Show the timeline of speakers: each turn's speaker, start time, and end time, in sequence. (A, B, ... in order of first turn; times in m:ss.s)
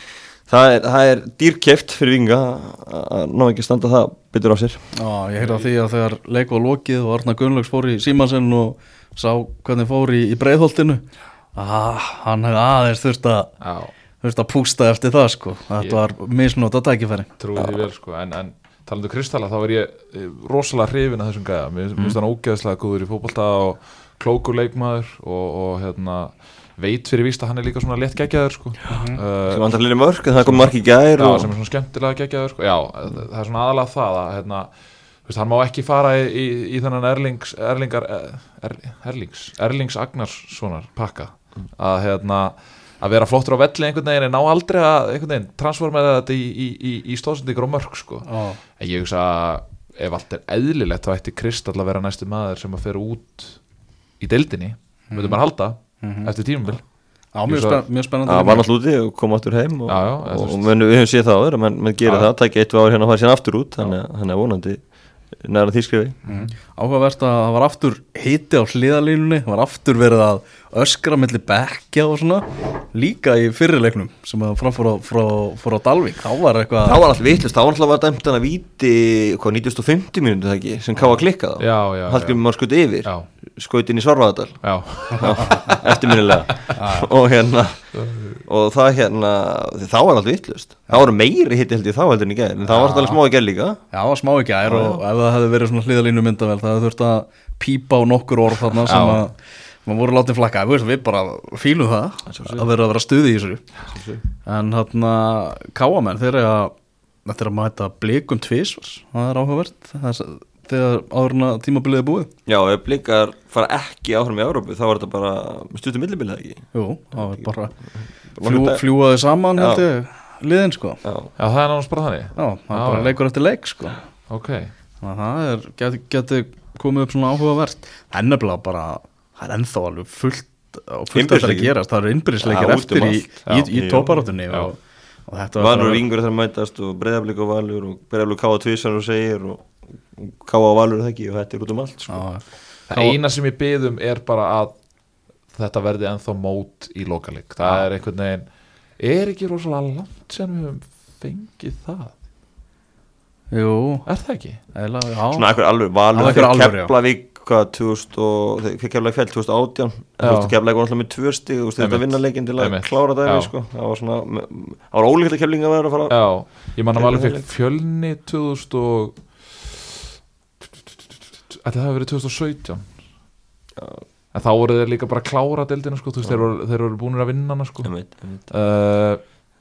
0:00.5-0:04.8 A
0:04.9-0:13.5 B
0:05.4-0:05.7 C
0:13.6-0:13.9 C
0:14.2-0:17.8 B
0:17.4-0:53.6 C
0:28.9-0:29.2 B
0:29.5-0:31.5 A
0:48.2-0:48.6 B
0:54.2-0:57.8 C
0:55.1-0:55.4 B
0:56.0-0:56.3 B
0:57.3-0:58.6 B
0:58.2-1:06.2 A
0:59.9-1:00.7 C
1:02.0-1:02.3 C
1:06.3-1:17.0 B
1:16.8-1:27.9 A
1:21.6-1:22.4 C
1:24.6-1:26.1 C
1:25.4-1:25.7 B
1:26.7-1:27.1 B
1:27.9-1:28.4 C
1:28.4-1:33.8 A
1:32.6-1:33.2 C
1:33.9-1:43.6 B
1:34.6-1:35.0 A
1:38.8-1:39.2 C
1:42.3-1:42.6 A
1:43.9-1:44.2 A
1:44.4-1:46.7 B
1:47.2-1:52.3 B
1:52.4-1:56.6 A
1:56.7-1:57.7 B
1:57.2-1:57.5 A
1:58.3-1:58.8 A
1:58.4-2:01.0 B
1:59.6-1:59.8 A
2:01.0-2:01.3 A
2:01.4-2:03.2 C
2:02.4-2:04.0 B
2:04.3-2:04.7 C
2:05.0-2:16.0 B
2:11.1-2:11.7 A
2:12.4-2:14.2 A
2:13.5-2:13.7 C
2:15.6-2:22.2 A
2:22.1-2:22.4 B
2:22.9-2:24.8 C
2:25.5-2:32.2 C
2:33.5-2:34.1 B
2:34.0-2:34.6 C
2:34.7-2:36.9 B
2:35.3-2:47.4 A
2:40.2-2:40.5 C
2:41.8-2:43.5 C
2:46.1-2:49.8 C
2:51.5-2:52.9 C
2:53.8-2:54.0 A
2:54.3-2:59.4 C
2:57.8-2:58.5 A